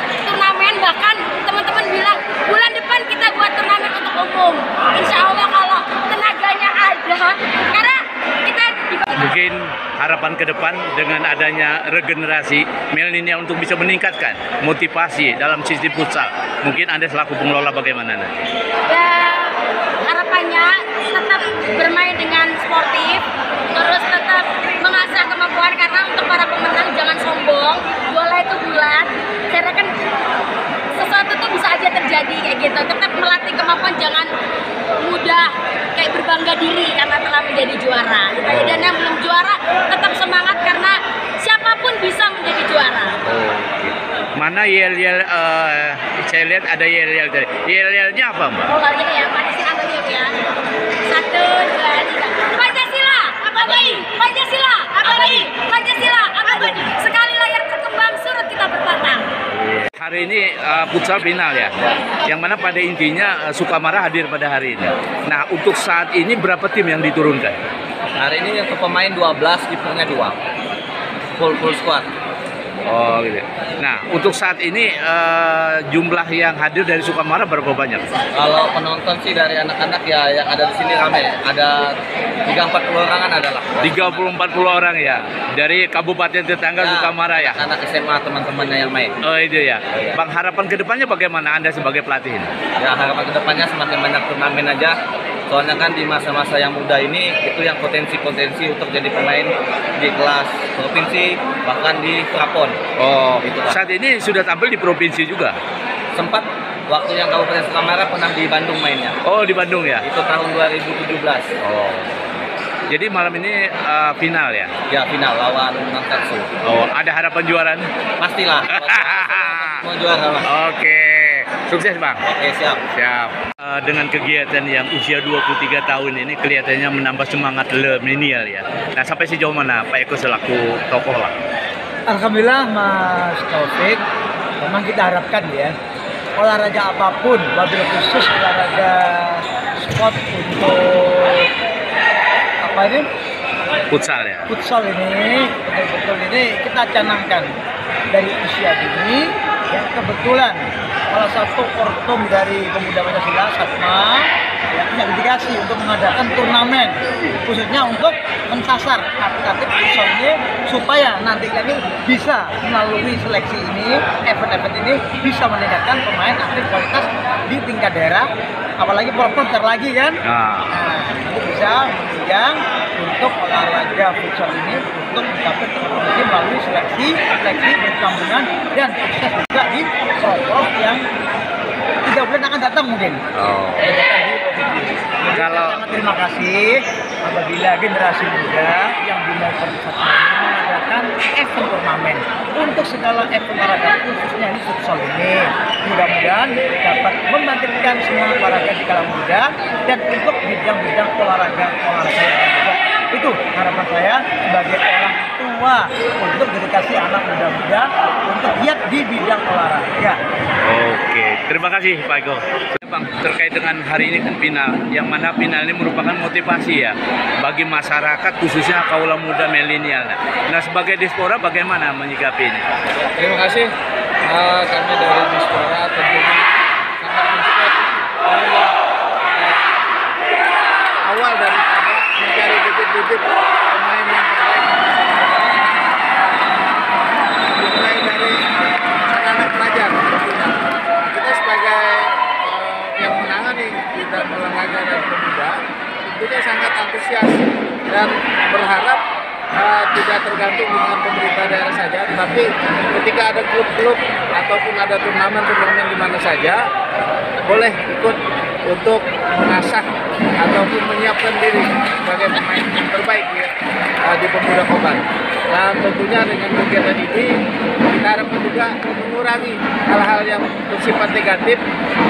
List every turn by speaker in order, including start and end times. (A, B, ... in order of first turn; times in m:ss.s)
0:00.2-0:09.1 A
0:09.2-0:18.5 B
0:18.9-0:29.9 A
0:31.0-0:34.3 A
0:35.0-0:43.2 A
0:38.5-0:38.9 B
0:43.2-0:48.7 B
0:48.7-0:50.3 A
0:51.0-0:59.3 A
0:59.5-1:07.6 B
1:08.2-1:10.4 C
1:11.4-1:12.1 C
1:12.8-1:18.1 B
1:18.3-1:21.9 C
1:22.4-1:24.3 C
1:23.8-1:27.6 B
1:26.8-1:29.1 C
1:29.2-1:32.5 B
1:32.8-1:42.8 C
1:43.0-1:45.6 B
1:43.4-1:43.8 C
1:46.1-1:49.2 C
1:49.2-1:50.0 B
1:50.0-1:51.5 C
1:51.6-1:54.7 B
1:54.9-1:56.5 C
1:56.6-1:57.9 B
1:58.2-2:00.5 C
1:58.7-1:59.8 B
2:00.5-2:02.2 B
2:02.2-2:02.8 C
2:02.9-2:11.3 B
2:12.1-2:14.0 D
2:14.6-2:15.7 D
2:16.4-2:21.5 D
2:22.6-2:23.0 D
2:23.9-2:24.5 B
2:24.5-2:27.5 D
2:28.1-2:48.3 D
2:48.8-2:50.2 D
2:50.3-2:50.7 B
2:50.7-3:01.0 D
3:02.0-3:03.2 D
3:03.4-3:03.9 B
3:03.8-3:30.2 D
3:05.3-3:05.8 B
3:30.6-3:42.7 B
3:43.1-3:43.7 E
3:44.2-3:46.4 E
3:47.0-3:48.7 E
3:49.3-3:49.6 E
3:51.0-3:56.0 E
3:57.5-3:58.4 E
3:59.1-4:09.0 E
4:09.6-4:16.6 E
4:17.5-4:18.1 E
4:18.7-4:19.8 E
4:20.4-4:23.5 E
4:24.1-4:25.0 E
4:25.5-4:27.3 E
4:28.0-4:31.6 E